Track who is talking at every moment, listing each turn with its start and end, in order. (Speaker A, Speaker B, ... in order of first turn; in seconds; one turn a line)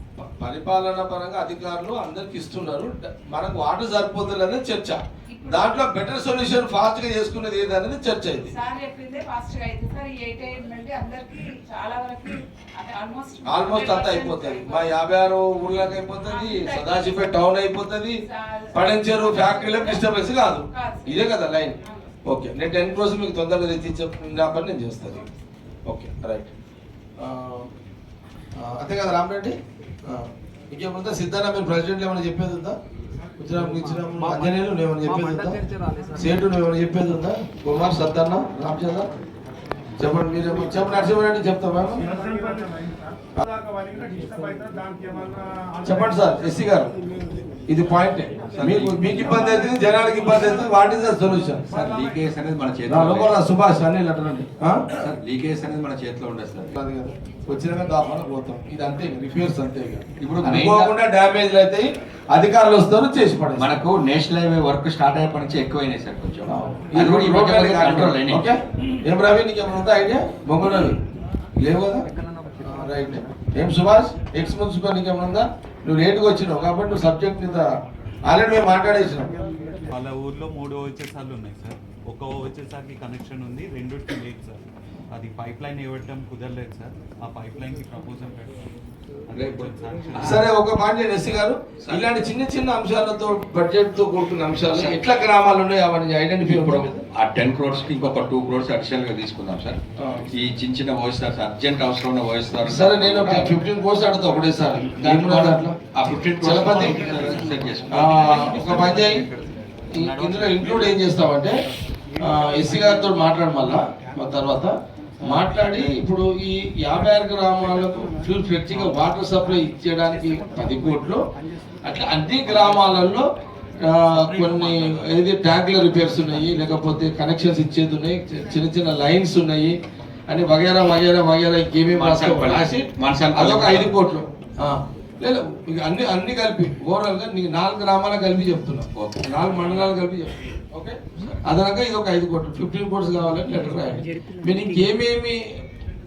Speaker A: 0.4-8.6
Speaker B: 5.3-5.8
Speaker B: 8.5-14.9
Speaker A: 13.4-18.2
Speaker B: 16.2-17.4
Speaker B: 18.2-21.3
Speaker A: 18.7-25.2
Speaker A: 25.9-26.5
Speaker A: 27.2-27.7
Speaker A: 28.6-29.5
Speaker A: 30.1-32.7
Speaker A: 33.4-35.6
Speaker A: 36.1-39.1
Speaker A: 40.0-42.0
Speaker A: 45.8-46.9
Speaker A: 47.7-51.6
Speaker C: 48.5-49.3
Speaker C: 51.7-53.4
Speaker A: 52.9-54.9
Speaker C: 55.0-56.7
Speaker A: 56.7-63.8
Speaker C: 60.2-60.9
Speaker C: 63.6-68.4
Speaker A: 66.5-70.9
Speaker A: 71.6-72.0
Speaker A: 72.7-77.7
Speaker A: 78.2-79.3
Speaker D: 79.9-84.6
Speaker D: 85.1-88.6
Speaker D: 89.3-90.4
Speaker C: 89.3-90.4
Speaker A: 90.2-97.0
Speaker C: 91.8-92.2
Speaker C: 96.4-103.5
Speaker A: 100.0-100.2
Speaker A: 102.6-105.8
Speaker C: 105.0-108.3
Speaker A: 106.4-106.9
Speaker A: 107.9-109.3
Speaker D: 108.4-109.2
Speaker A: 109.9-111.5
Speaker D: 110.2-110.7
Speaker A: 112.2-114.7
Speaker A: 115.2-121.2
Speaker A: 121.8-123.2
Speaker A: 123.8-129.7
Speaker A: 130.3-145.4
Speaker C: 131.9-133.9
Speaker C: 138.9-139.3
Speaker C: 141.2-141.4